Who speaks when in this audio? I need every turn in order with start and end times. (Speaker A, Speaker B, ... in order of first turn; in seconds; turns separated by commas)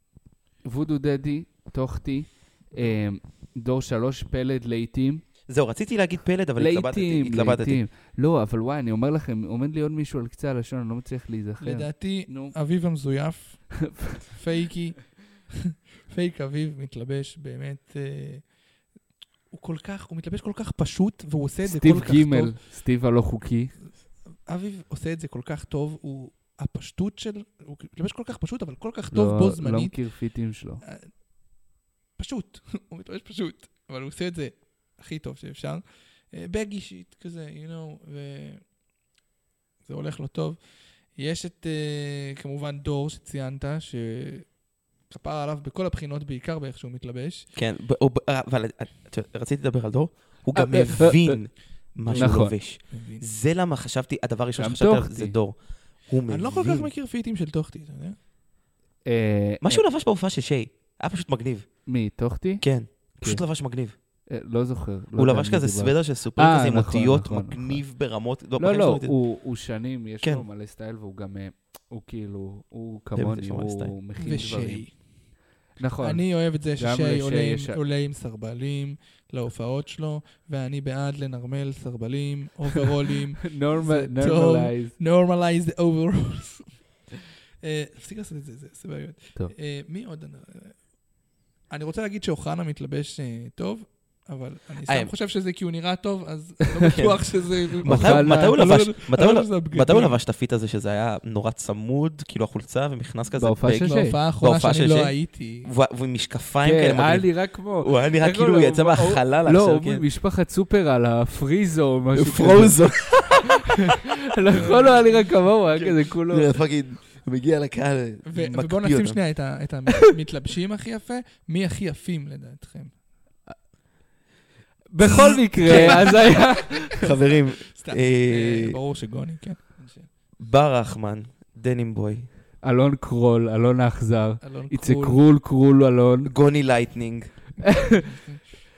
Speaker A: 0.7-5.2, Speaker B: 5.5-7.8, Speaker A: 6.6-12.5, Speaker C: 11.6-18.4, Speaker A: 13.8-14.2, Speaker C: 19.5-22.5, Speaker A: 21.6-23.7, Speaker C: 24.5-30.0, Speaker A: 29.1-30.8, Speaker C: 30.8-31.1, Speaker C: 32.2-38.6, Speaker C: 39.9-40.6, Speaker C: 41.1-44.5, Speaker C: 45.1-47.5, Speaker B: 47.5-56.9, Speaker C: 50.6-50.9, Speaker A: 50.9-51.4, Speaker C: 52.0-53.2, Speaker A: 52.1-52.5, Speaker A: 54.6-55.4, Speaker C: 56.3-58.2, Speaker A: 59.0-59.8, Speaker B: 59.6-61.7, Speaker A: 61.9-62.6, Speaker B: 62.6-64.0, Speaker A: 63.1-63.4, Speaker A: 64.3-67.8, Speaker B: 65.2-69.1, Speaker A: 68.6-74.8, Speaker B: 73.2-73.9, Speaker C: 74.2-74.9, Speaker A: 75.8-76.2, Speaker C: 76.0-90.8, Speaker A: 76.8-77.8, Speaker A: 83.4-84.9, Speaker C: 91.7-100.1, Speaker B: 96.9-97.2, Speaker B: 97.8-110.0, Speaker A: 97.8-98.6, Speaker A: 103.4-104.2, Speaker C: 103.8-105.7, Speaker A: 106.6-112.8, Speaker B: 112.1-114.0, Speaker A: 113.7-116.5, Speaker C: 114.5-115.3, Speaker B: 115.7-119.2, Speaker C: 118.3-122.9, Speaker A: 124.9-127.0, Speaker C: 125.0-130.1, Speaker B: 125.7-126.3, Speaker B: 126.9-128.8, Speaker B: 130.4-132.3, Speaker A: 132.6-136.3, Speaker C: 134.4-135.2, Speaker B: 136.2-137.3, Speaker A: 137.6-138.1, Speaker C: 137.8-138.4